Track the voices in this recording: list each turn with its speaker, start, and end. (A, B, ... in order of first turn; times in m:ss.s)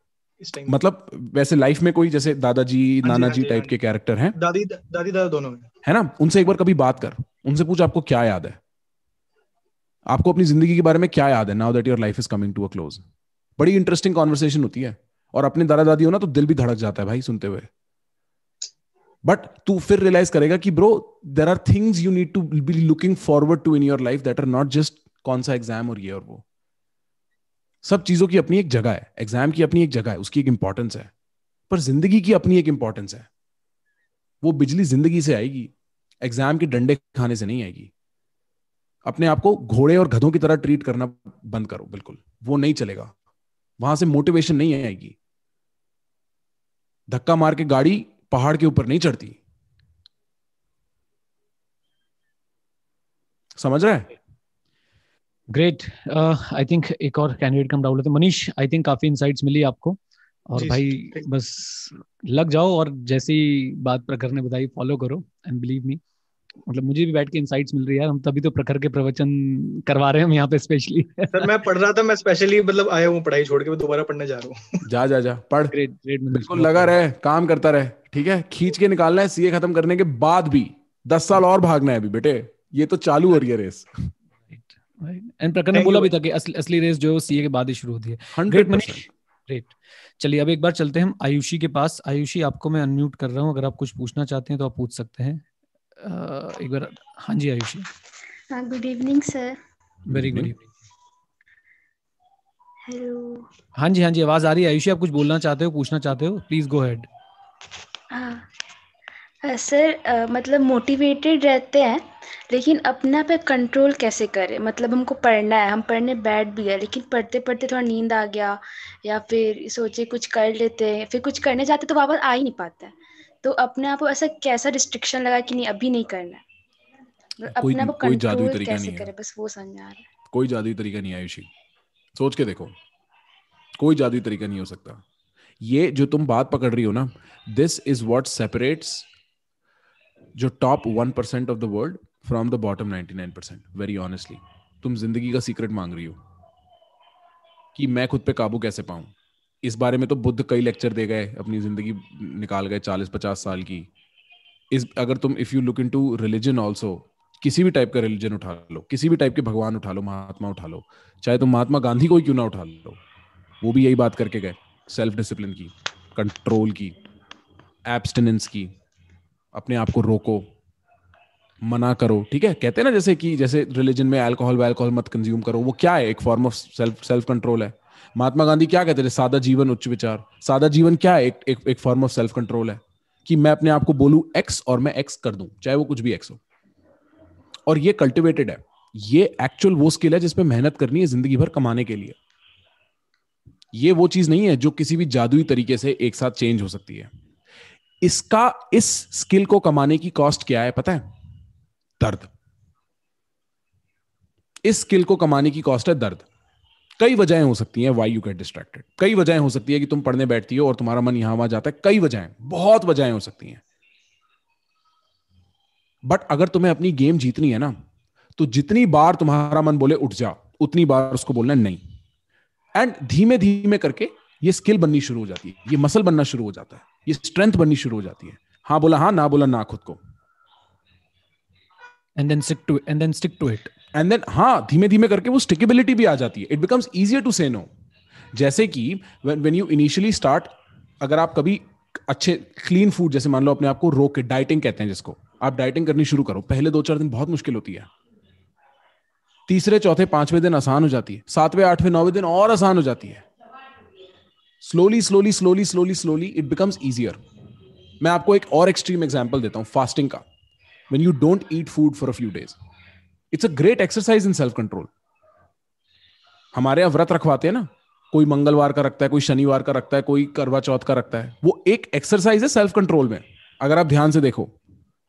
0:00.4-0:00.8 A
0:00.6-0:04.4 B
0:03.0-0:03.7 A
0:04.4-0:05.7 A
0:05.8-0:08.6 B
0:10.0-0:13.0 B
0:13.6-0:17.7 B
0:19.2-0:26.4 B
0:27.8-0:31.1 B
0:31.7-0:33.3 B
0:34.4-0:35.7 B
0:36.2-0:37.9 B
0:39.0-0:43.1 B
0:43.8-0:45.2 B
0:47.1-0:49.4 B
0:53.6-0:54.1 B
0:55.5-1:06.0 C
1:00.6-1:01.2 A
1:06.7-1:11.5 C
1:11.3-1:14.8 A
1:14.8-1:15.7 B
1:15.7-1:17.0 C
1:16.3-1:24.1 B
1:24.5-1:35.4 C
1:25.8-1:26.1 A
1:28.3-1:29.1 B
1:36.0-1:37.9 C
1:38.5-1:39.6 D
1:40.1-1:40.5 B
1:40.1-1:40.7 C
1:42.8-1:43.5 D
1:43.8-1:47.1 C
1:48.1-1:48.4 D
1:49.4-2:06.4 D
2:07.4-2:10.0 D
2:07.5-2:09.1 B
2:10.3-2:11.5 B
2:12.1-2:12.7 B
2:13.8-2:15.0 B
2:15.6-2:19.1 B
2:20.3-2:26.2 B
2:27.7-2:33.9 B
2:34.7-2:43.0 B
2:43.6-2:47.0 B
2:47.9-2:48.7 B
2:49.5-2:50.5 B
2:51.6-3:06.4 B
3:07.7-3:12.2 B
3:13.7-3:17.1 B
3:18.0-3:21.0 B
3:22.0-3:22.3 B
3:24.6-3:26.2 B
3:27.0-3:33.6 B
3:36.0-3:37.8 B
3:38.4-3:41.8 B
3:42.7-3:50.0 B
3:52.2-3:53.7 C
3:53.9-3:57.7 B
3:58.3-4:07.9 B
4:09.5-4:13.2 B
4:14.6-4:17.2 B
4:18.0-4:20.2 B
4:20.9-4:22.6 B
4:23.3-4:24.9 B
4:26.5-4:34.5 B